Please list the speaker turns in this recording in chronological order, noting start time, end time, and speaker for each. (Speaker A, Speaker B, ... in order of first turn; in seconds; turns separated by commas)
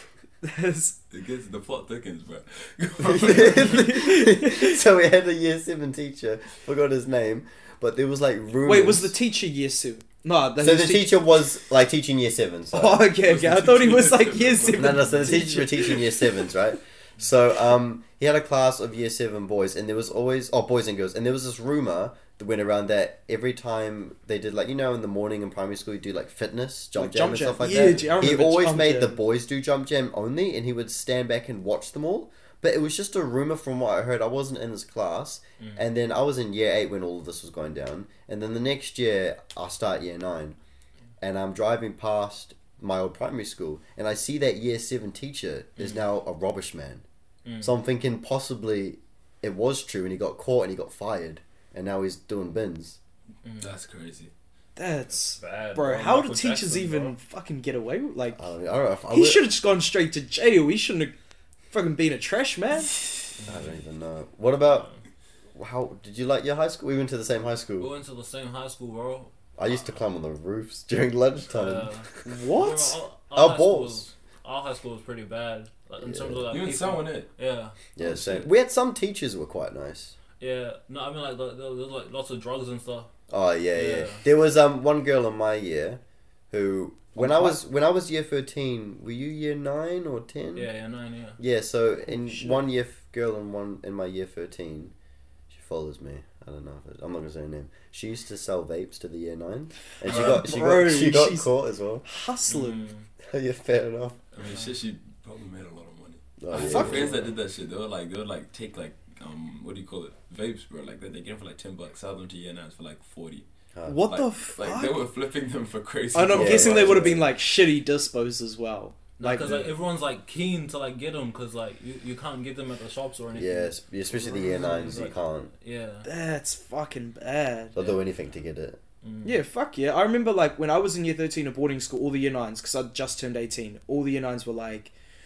Speaker A: 0.4-1.0, Speaker B: 1.1-3.9, Speaker C: 3.0-9.1, Speaker A: 3.4-4.8, Speaker A: 8.6-11.2, Speaker C: 10.6-13.1, Speaker A: 12.7-16.2, Speaker B: 13.2-15.1, Speaker C: 14.8-40.6, Speaker A: 26.9-29.2, Speaker C: 41.2-47.0, Speaker D: 47.4-47.7, Speaker C: 47.6-53.0, Speaker B: 53.6-54.3, Speaker A: 54.8-58.4, Speaker D: 55.4-57.1, Speaker C: 58.3-59.4, Speaker A: 59.1-61.1, Speaker A: 61.7-62.9, Speaker C: 63.4-64.9, Speaker D: 64.7-65.0, Speaker C: 65.5-67.9, Speaker D: 67.8-69.3, Speaker C: 69.6-72.1, Speaker D: 71.6-72.1, Speaker A: 72.2-73.0, Speaker D: 72.6-77.8, Speaker C: 73.3-74.0, Speaker C: 76.0-76.4, Speaker B: 76.5-77.3, Speaker C: 78.0-80.1, Speaker D: 80.4-83.1, Speaker C: 83.3-90.7, Speaker D: 83.7-84.2, Speaker A: 87.2-87.6, Speaker D: 90.5-91.4, Speaker C: 91.4-94.9, Speaker A: 92.1-92.6, Speaker C: 95.5-102.0, Speaker A: 100.0-101.5, Speaker B: 100.1-100.4, Speaker A: 102.0-102.9, Speaker D: 102.5-103.0, Speaker C: 103.3-104.2, Speaker B: 104.3-113.5, Speaker C: 106.4-107.3, Speaker A: 106.5-107.1, Speaker C: 113.7-114.0, Speaker A: 113.8-115.0, Speaker B: 114.0-117.2, Speaker A: 116.1-119.5, Speaker C: 116.3-117.2, Speaker D: 119.2-126.1, Speaker C: 123.3-125.5, Speaker A: 126.0-127.8, Speaker C: 127.7-128.8, Speaker D: 129.0-129.3, Speaker A: 129.2-134.9